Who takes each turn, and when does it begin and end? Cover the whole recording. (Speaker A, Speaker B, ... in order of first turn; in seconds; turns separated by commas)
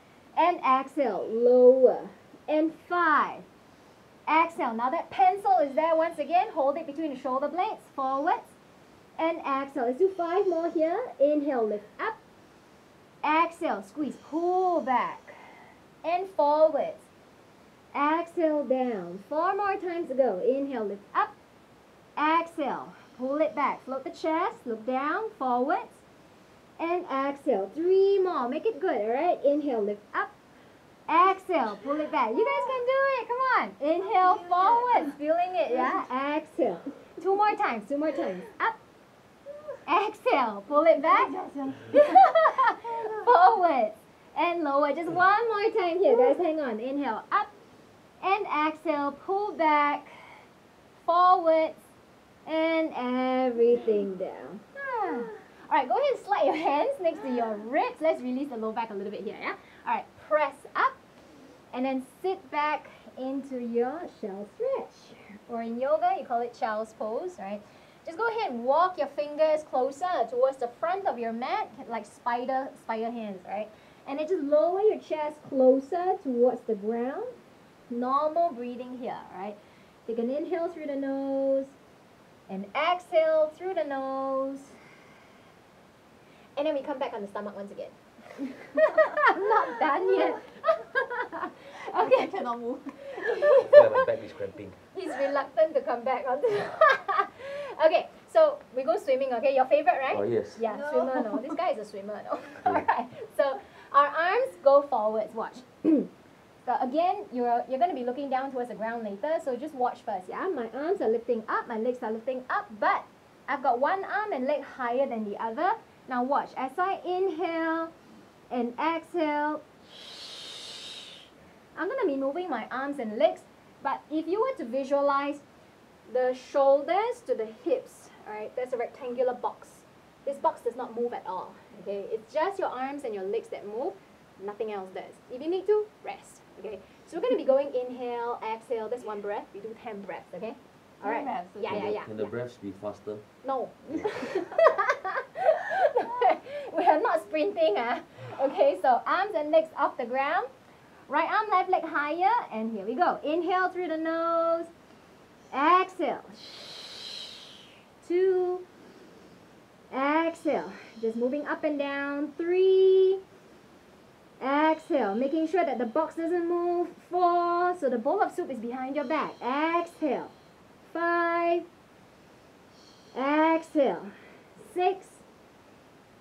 Speaker A: 0.3-3.5, Speaker A: 4.3-8.6, Speaker A: 9.2-12.2, Speaker A: 13.2-15.4, Speaker A: 16.0-17.1, Speaker A: 17.9-21.3, Speaker A: 22.2-26.0, Speaker A: 26.8-30.3, Speaker A: 31.1-38.8, Speaker B: 34.0-35.2, Speaker B: 35.7-36.0, Speaker A: 39.9-41.3, Speaker B: 40.9-43.4, Speaker A: 41.9-47.5, Speaker A: 48.2-50.1, Speaker A: 51.0-51.9, Speaker A: 52.5-61.0, Speaker A: 61.7-77.4, Speaker A: 77.9-81.8, Speaker A: 82.5-84.7, Speaker A: 86.6-92.3, Speaker B: 92.0-93.5, Speaker A: 93.1-94.0, Speaker C: 93.6-94.8, Speaker A: 94.9-106.1, Speaker C: 100.1-100.6, Speaker B: 100.7-101.6, Speaker A: 106.7-117.9, Speaker A: 118.5-121.0, Speaker A: 121.8-125.4, Speaker A: 126.1-142.3, Speaker B: 141.0-142.0, Speaker C: 141.7-143.2, Speaker A: 143.4-150.5, Speaker A: 151.1-154.7, Speaker A: 155.5-157.2, Speaker A: 158.0-158.7, Speaker A: 159.9-163.2, Speaker A: 164.4-170.3, Speaker A: 170.9-171.7, Speaker A: 173.1-175.2